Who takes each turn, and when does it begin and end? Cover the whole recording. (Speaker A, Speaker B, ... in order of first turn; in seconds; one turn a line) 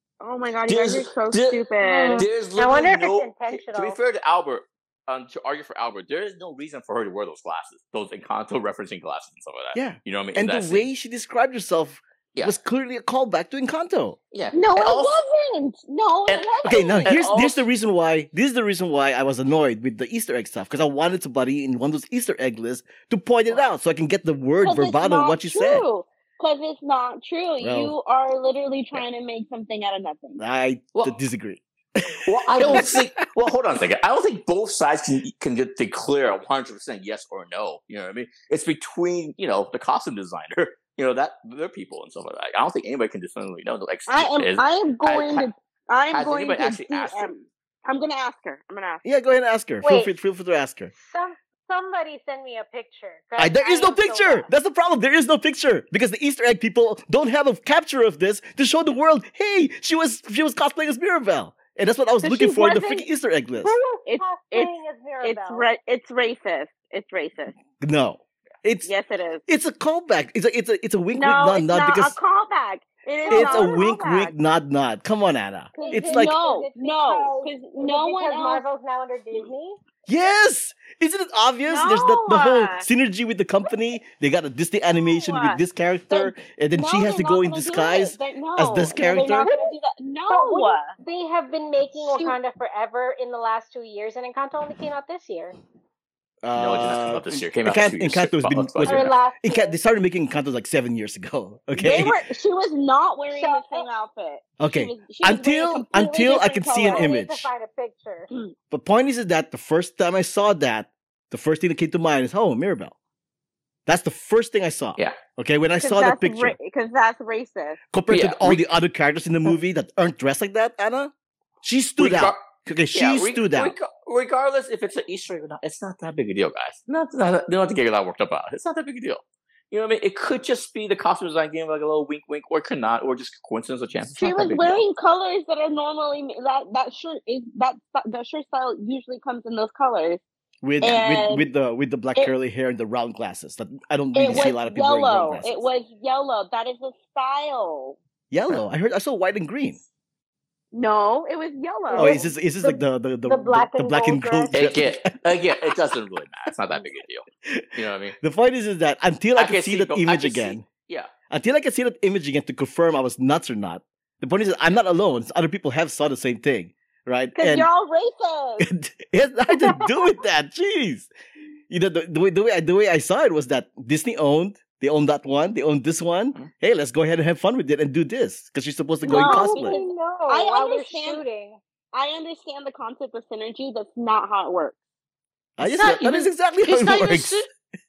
Speaker A: 0.2-2.2
Speaker B: 0.7-1.6
Speaker C: 1.8-4.0
Speaker B: 2.1-10.9
Speaker D: 9.7-14.2
Speaker B: 14.3-15.2
Speaker A: 14.5-17.2
Speaker B: 16.3-17.6
Speaker D: 16.6-25.8
Speaker A: 24.6-30.4
Speaker D: 27.6-27.9
Speaker D: 30.4-33.1
Speaker B: 32.2-45.5
Speaker A: 44.1-49.0
Speaker B: 46.1-47.3
Speaker D: 49.0-50.9
Speaker C: 49.8-50.1
Speaker C: 50.9-54.5
Speaker D: 53.4-63.7
Speaker A: 62.2-63.1
Speaker C: 63.6-65.7
Speaker A: 64.0-64.7
Speaker A: 65.2-67.5
Speaker D: 67.8-68.9
Speaker A: 68.8-69.4
Speaker D: 69.5-72.2
Speaker A: 71.1-74.3
Speaker C: 73.2-73.9
Speaker D: 73.3-76.3
Speaker A: 75.7-78.6
Speaker C: 75.8-79.8
Speaker D: 80.1-89.5
Speaker A: 81.7-82.8
Speaker A: 84.9-91.0
Speaker C: 89.3-89.8
Speaker C: 90.3-95.5
Speaker A: 92.0-92.3
Speaker D: 96.4-102.2
Speaker B: 96.5-99.1
Speaker C: 98.8-99.8
Speaker A: 101.7-107.1
Speaker C: 103.3-103.9
Speaker D: 104.6-107.5
Speaker C: 106.8-108.3
Speaker D: 108.7-112.9
Speaker D: 113.8-116.5
Speaker A: 115.8-117.8
Speaker D: 117.9-121.1
Speaker B: 118.1-118.6
Speaker D: 121.6-123.8
Speaker B: 122.0-122.4
Speaker B: 122.9-134.8
Speaker A: 134.2-140.2
Speaker D: 140.6-145.6
Speaker A: 140.8-141.5
Speaker A: 144.1-148.0
Speaker D: 148.3-149.8
Speaker A: 150.7-152.2
Speaker C: 151.9-154.6
Speaker D: 151.9-155.8
Speaker B: 154.5-158.2
Speaker D: 157.4-160.6
Speaker B: 159.3-161.1
Speaker D: 161.3-167.7
Speaker A: 167.3-168.7
Speaker D: 168.6-171.1
Speaker C: 169.5-170.1
Speaker D: 171.7-179.8
Speaker A: 179.0-181.2
Speaker C: 179.1-181.6
Speaker A: 181.9-184.8
Speaker D: 185.6-187.4
Speaker B: 185.6-187.4